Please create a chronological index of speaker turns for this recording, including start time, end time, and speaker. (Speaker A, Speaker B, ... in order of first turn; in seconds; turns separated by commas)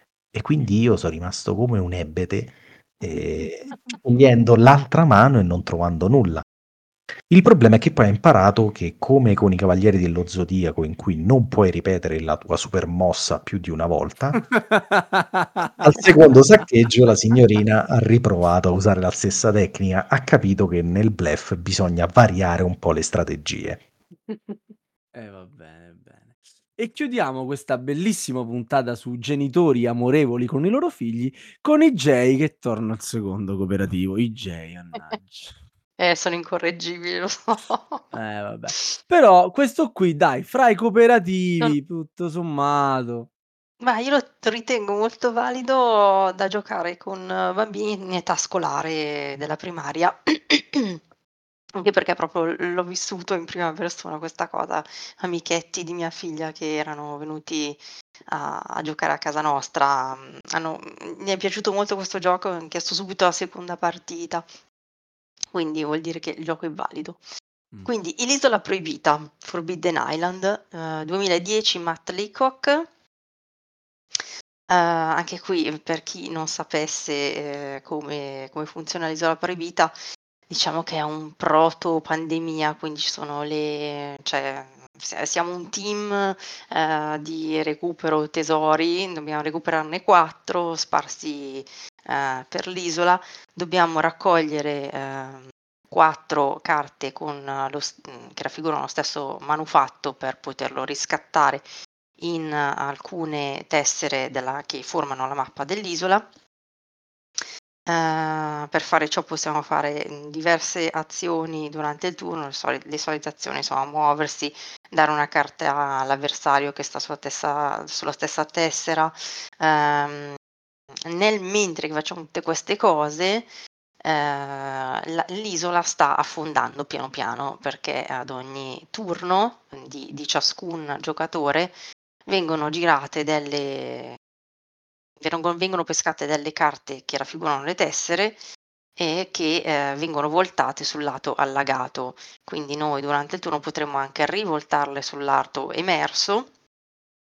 Speaker A: 0.3-6.4, Speaker A: 7.3-14.5, Speaker B: 14.5-16.1, Speaker A: 15.8-23.8, Speaker C: 24.3-24.6, Speaker B: 25.1-35.5, Speaker C: 36.0-38.1, Speaker B: 38.1-43.3, Speaker C: 43.8-51.0, Speaker C: 51.7-64.5, Speaker C: 65.5-67.2, Speaker C: 67.8-72.9, Speaker C: 74.7-79.9, Speaker C: 80.5-101.7, Speaker C: 102.2-106.3, Speaker C: 107.9-120.4, Speaker C: 121.0-123.5, Speaker C: 124.0-134.2, Speaker C: 135.2-138.4, Speaker C: 139.0-146.5